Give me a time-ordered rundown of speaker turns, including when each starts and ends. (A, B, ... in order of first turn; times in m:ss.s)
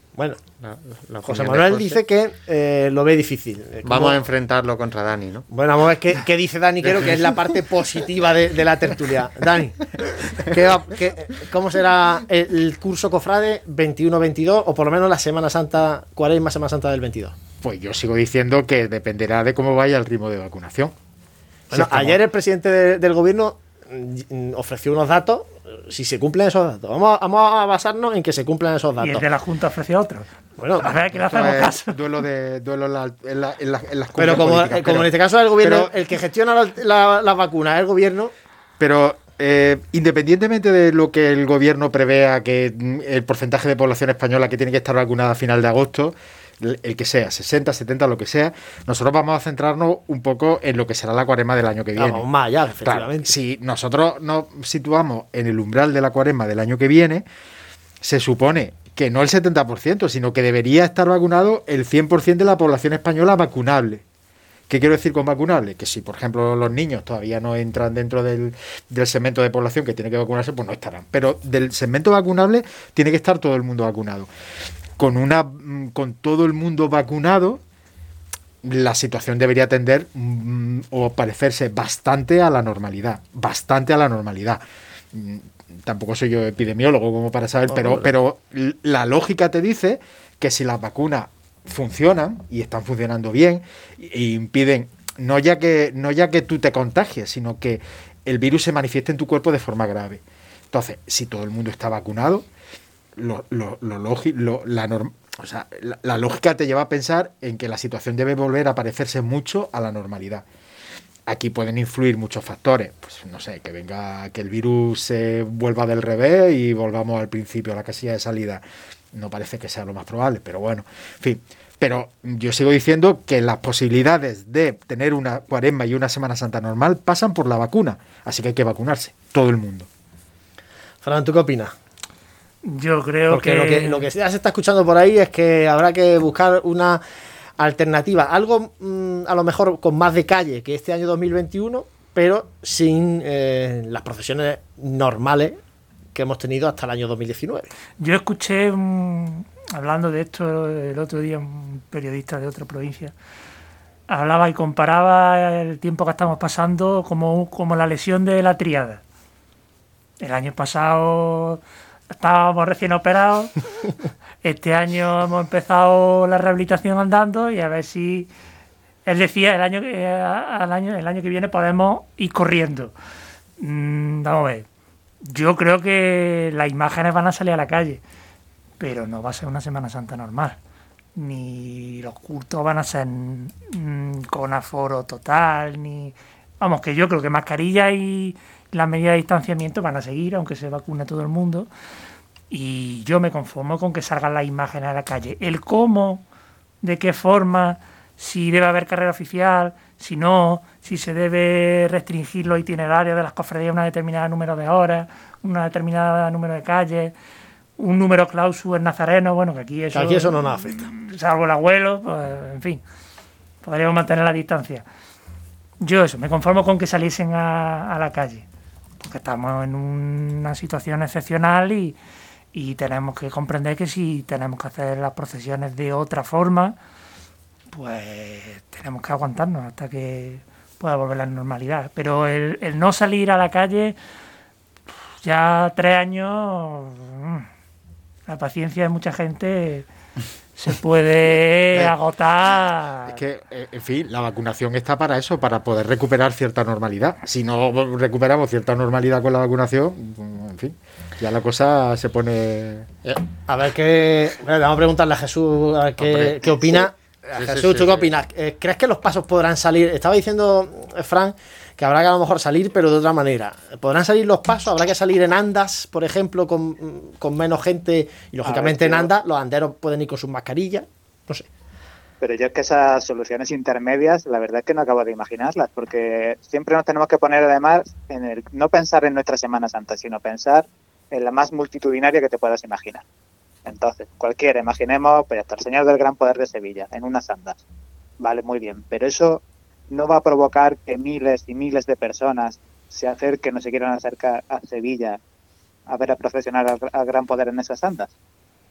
0:00.2-0:00.4 A
0:00.6-0:02.0 B
0:01.2-0:04.2 A
0:03.8-0:05.5 B
0:05.5-0:09.8 A
0:06.8-0:07.1 B
0:10.4-0:17.4 A
0:17.6-0:20.9 C
0:21.7-0:22.2 C
0:21.7-0:29.2 A
0:29.0-0:30.3 D
0:30.6-0:31.0 A
0:30.8-0:32.0 D
0:31.1-0:35.9 C
0:34.2-0:38.3 A
0:38.8-0:52.2 C
0:52.0-0:53.3 A
0:52.8-0:57.2 C
0:58.0-1:04.0 C
1:04.7-1:14.3 C
1:15.0-1:17.6 C
1:18.6-1:24.6 C
1:25.1-1:42.4 C
1:27.7-1:28.1 A
1:43.2-1:50.4 C
1:51.3-2:09.9 C
2:11.0-2:11.7 A
2:12.6-2:14.1 D
2:13.3-2:17.0 A
2:17.6-2:25.6 A
2:26.1-2:27.7 A
2:28.0-2:33.1 D
2:34.1-2:39.0 D
2:40.2-2:41.6 D
2:42.1-2:43.5 D
2:44.4-2:48.3 D
2:49.0-2:52.9 D
2:53.6-2:54.6 D
2:55.2-2:58.0 D
2:58.8-3:00.6 D
3:01.2-3:11.7 D
3:12.5-3:16.2 D
3:16.8-3:27.1 D
3:27.8-3:32.8 D
3:29.9-3:30.9 A
3:33.6-3:34.8 D
3:35.8-3:38.4 D
3:39.0-3:42.0 D
3:42.5-3:46.8 D
3:47.7-3:54.0 D
3:55.2-3:57.5 D
3:58.3-3:59.8 D
4:00.6-4:03.2 D
4:03.0-4:12.9 C
4:13.5-4:31.5 A
4:16.0-4:18.1 B
4:28.4-4:29.1 E
4:32.2-4:43.0 E
4:43.6-4:47.6 E
4:48.2-4:55.2 E
4:55.9-4:58.1 E